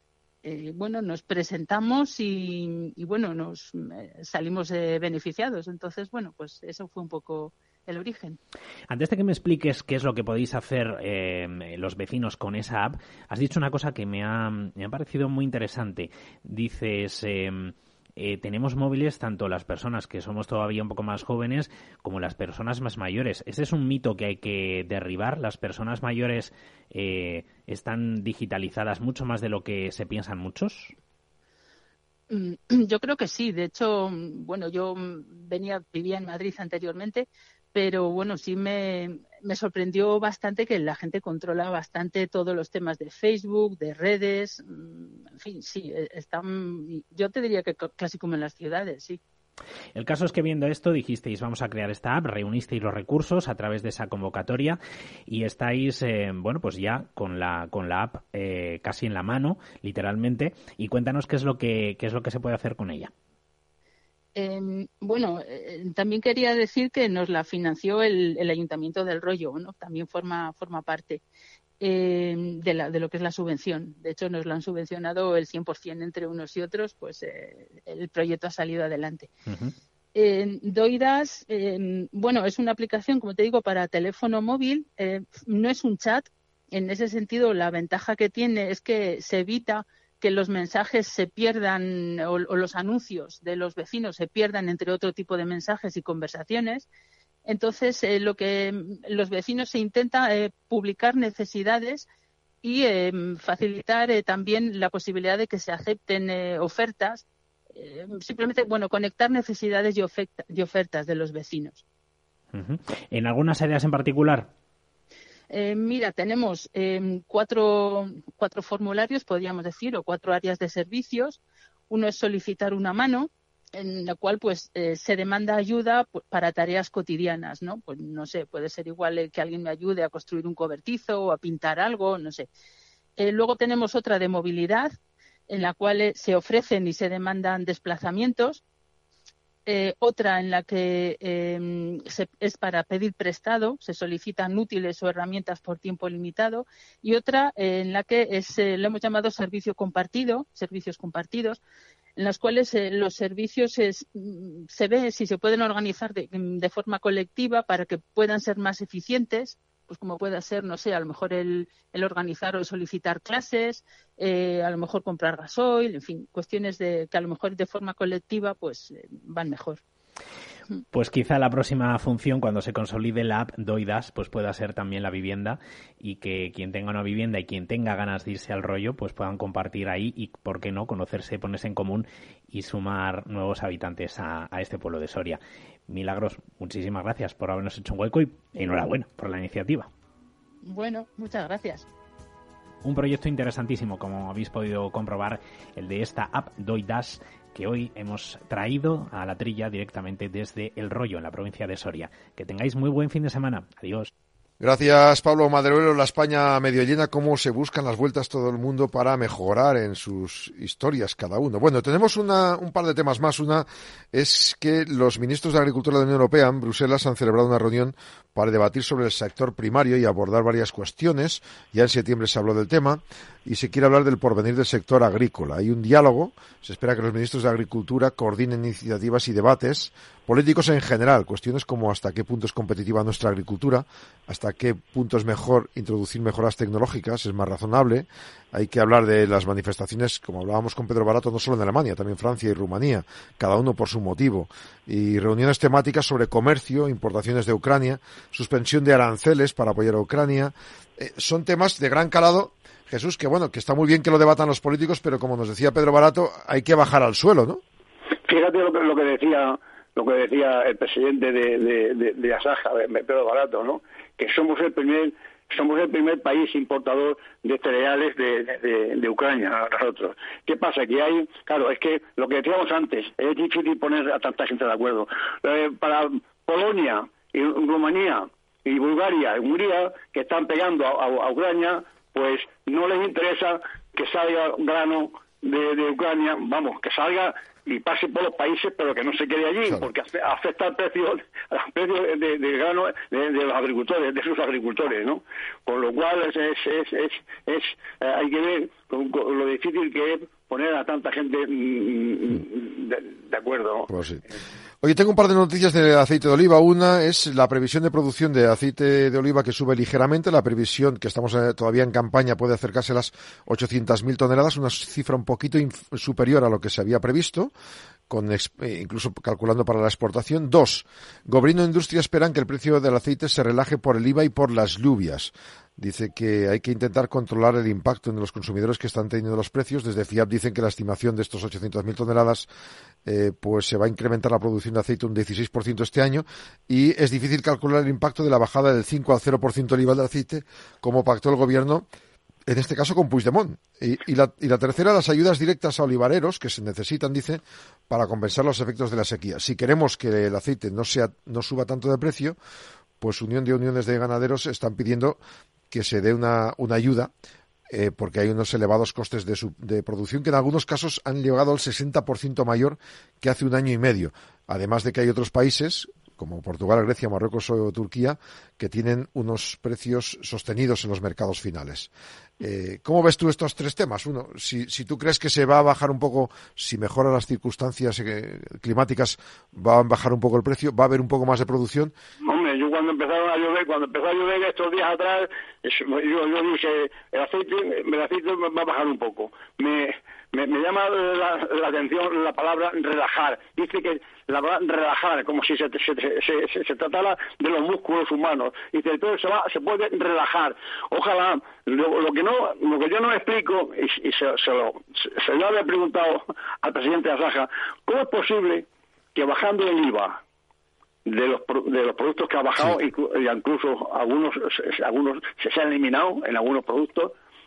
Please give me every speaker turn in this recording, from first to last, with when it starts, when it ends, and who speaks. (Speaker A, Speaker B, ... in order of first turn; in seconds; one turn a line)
Speaker A: 0.4-8.4
Speaker B: 8.9-31.0
Speaker A: 32.3-49.2
Speaker B: 50.0-63.1
Speaker A: 64.3-71.2
Speaker A: 71.8-79.3
Speaker B: 79.5-79.8
Speaker A: 80.2-96.9
Speaker A: 97.5-102.1
Speaker A: 102.6-111.8
Speaker B: 112.5-114.5
Speaker A: 115.5-132.5
Speaker A: 133.2-134.9
Speaker A: 135.5-138.6
Speaker A: 139.7-151.6
Speaker A: 152.2-169.8
Speaker B: 170.9-189.9
Speaker A: 190.6-191.9
Speaker B: 192.8-204.1
Speaker C: 204.6-257.6
Speaker D: 258.3-303.9
Speaker C: 303.9-304.2
Speaker C: 304.8-317.5
Speaker C: 318.1-332.5
Speaker C: 333.1-341.9
Speaker C: 342.5-352.4
Speaker C: 353.0-355.2
Speaker C: 355.7-357.1
Speaker C: 357.7-371.9
Speaker C: 372.4-381.9
Speaker D: 382.2-410.2
Speaker D: 411.1-417.1